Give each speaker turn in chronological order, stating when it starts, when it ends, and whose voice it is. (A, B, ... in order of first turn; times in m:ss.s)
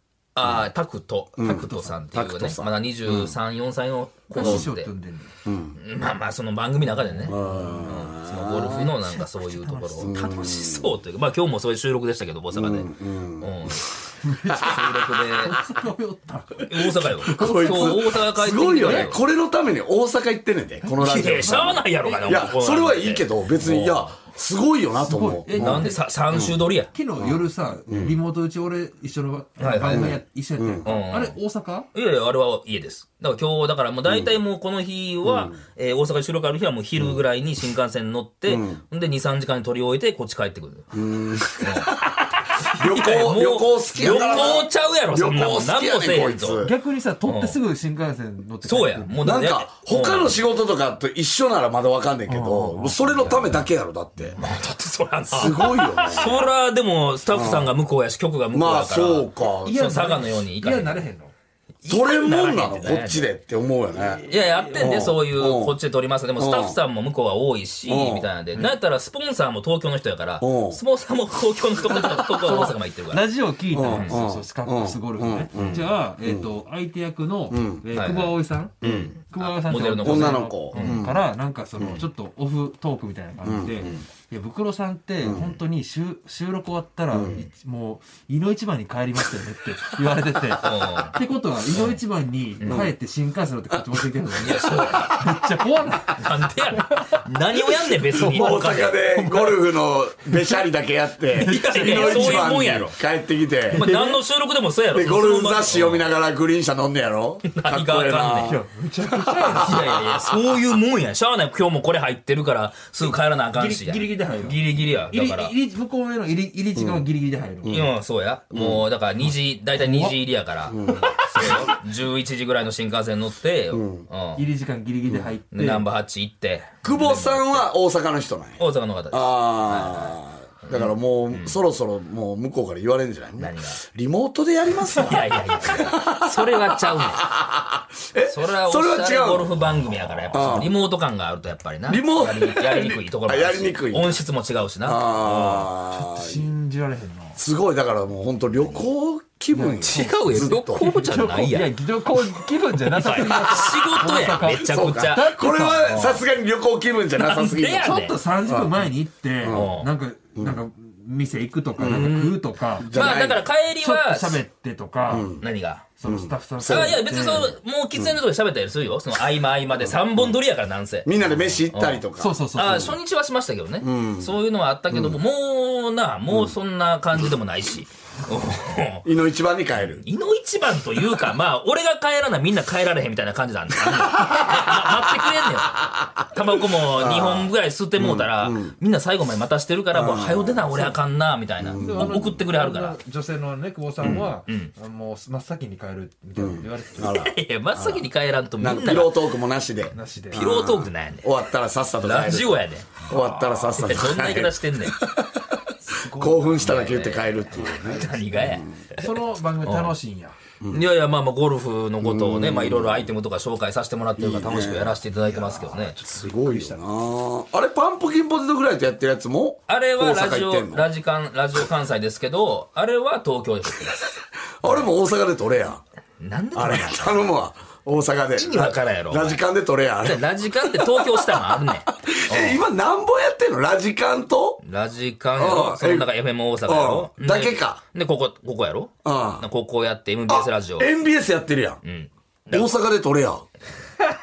0:00.4-0:04.9 A
0:00.4-0:00.7 B
0:01.4-0:03.3 B
0:04.3-0:05.3 C
0:04.4-0:04.7 B
0:05.4-0:05.8 B
0:05.8-0:14.0 A
0:07.0-0:10.5 C
0:07.3-0:08.9 B
0:10.0-0:11.0 B
0:12.5-0:13.9 B
0:14.2-0:18.0 C
0:14.5-0:15.0 B
0:14.5-0:15.6 A
0:16.7-0:19.2 A
0:17.3-0:26.6 B
0:18.8-0:19.1 C
0:20.8-0:22.3 C
0:21.0-0:24.2 A
0:25.0-0:26.0 C
0:25.5-0:26.9 A
0:26.9-0:31.9 C
0:27.2-0:28.2 B
0:29.6-0:30.2 A
0:29.9-0:30.9 B
0:30.8-0:31.4 A
0:31.9-0:41.0 A
0:34.0-0:34.4 B
0:35.2-0:35.6 B
0:37.0-0:37.2 B
0:38.5-0:38.8 B
0:40.9-0:42.1 B
0:41.6-0:46.7 A
0:42.7-0:46.7 B
0:44.0-0:44.6 C
0:46.6-0:49.4 C
0:47.2-0:47.6 A
0:48.6-0:50.4 A
0:49.2-0:54.4 B
0:52.3-0:53.3 C
0:53.2-0:53.6 A
0:54.3-1:01.0 A
0:55.3-0:56.4 B
0:57.3-0:57.8 B
0:58.5-0:59.8 B
0:59.6-1:01.3 C
1:01.8-1:03.3 A
1:01.9-1:05.8 B
1:04.2-1:13.3 A
1:04.3-1:04.9 C
1:06.4-1:06.8 B
1:07.8-1:08.3 B
1:10.4-1:10.8 B
1:11.8-1:36.2 C
1:13.7-1:16.6 B
1:13.8-1:14.2 A
1:17.5-1:17.9 B
1:17.9-1:21.0 A
1:18.8-1:19.2 B
1:19.9-1:21.2 B
1:21.8-1:22.0 B
1:23.4-1:24.0 B
1:25.2-1:25.6 B
1:27.1-1:27.4 B
1:30.6-1:31.2 A
1:31.7-1:32.0 A
1:32.6-1:32.9 A
1:32.6-1:32.9 B
1:34.4-1:35.3 A
1:34.4-1:35.0 B
1:36.1-1:39.0 A
1:36.8-1:37.2 C
1:38.1-1:40.6 C
1:38.1-1:43.9 B
1:41.3-1:43.0 A
1:41.4-1:42.5 C
1:43.7-1:46.1 A
1:43.7-1:44.2 C
1:44.9-1:50.5 B
1:47.5-1:48.6 A
1:48.4-1:50.0 C
1:49.5-1:55.5 A
1:53.5-1:57.9 C
1:56.8-1:57.1 B
1:57.6-1:57.9 B
1:57.6-2:04.4 A
1:58.5-1:58.9 B
1:59.8-2:00.2 C
2:00.7-2:01.7 B
2:03.7-2:04.1 B
2:04.3-2:05.9 C
2:05.1-2:05.4 B
2:05.5-2:07.7 A
2:06.8-2:20.7 B
2:08.6-2:11.6 A
2:13.4-2:13.8 A
2:15.0-2:17.3 A
2:18.3-2:25.7 A
2:21.9-2:24.2 B
2:24.8-2:26.5 B
2:25.9-2:27.4 C
2:27.4-2:30.9 B
2:29.5-2:36.1 C
2:29.8-2:31.7 A
2:32.9-2:36.2 A
2:33.2-2:38.8 B
2:37.2-2:38.2 A
2:37.8-2:43.2 C
2:39.4-2:39.7 B
2:39.4-2:39.9 A
2:41.8-2:42.1 B
2:41.8-2:44.4 A
2:42.8-2:43.4 B
2:43.8-2:45.3 C
2:45.1-2:45.5 B
2:45.1-2:45.9 A
2:46.0-2:47.5 C
2:46.0-2:47.0 B
2:46.6-2:59.0 A
2:49.8-2:50.4 B
2:51.0-2:52.9 B
2:52.2-2:53.0 C
2:53.8-2:54.3 B
2:54.9-2:55.2 B
2:59.0-3:00.0 B
2:59.8-3:13.0 A
3:03.9-3:05.2 B
3:06.8-3:08.8 B
3:09.9-3:10.9 B
3:11.6-3:12.3 B
3:11.8-3:17.1 C
3:14.0-3:14.3 B
3:14.0-3:14.7 A
3:16.4-3:18.1 B
3:17.0-3:19.2 A
3:18.6-3:25.4 B
3:19.8-3:21.4 A
3:19.9-3:20.5 C
3:22.0-3:22.9 A
3:23.1-3:23.8 C
3:23.8-3:25.0 A
3:25.8-3:26.8 C
3:26.1-3:28.9 B
3:26.6-3:29.9 A
3:27.6-3:30.4 C
3:30.7-3:36.0 A
3:32.0-3:33.1 B
3:34.2-3:35.0 B
3:35.2-3:36.8 C
3:36.0-3:40.9 B
3:39.7-3:44.1 A
3:44.6-3:45.8 B
3:44.6-3:44.9 A
3:46.2-3:47.2 A
3:46.5-3:54.6 B
3:48.3-3:49.4 A
3:50.0-3:52.6 A
3:54.6-4:00.9 A
3:55.4-3:56.1 B
3:56.6-3:57.8 B
3:59.0-3:59.4 B
4:00.3-4:01.8 B
4:01.8-4:02.7 A
4:02.5-4:03.4 B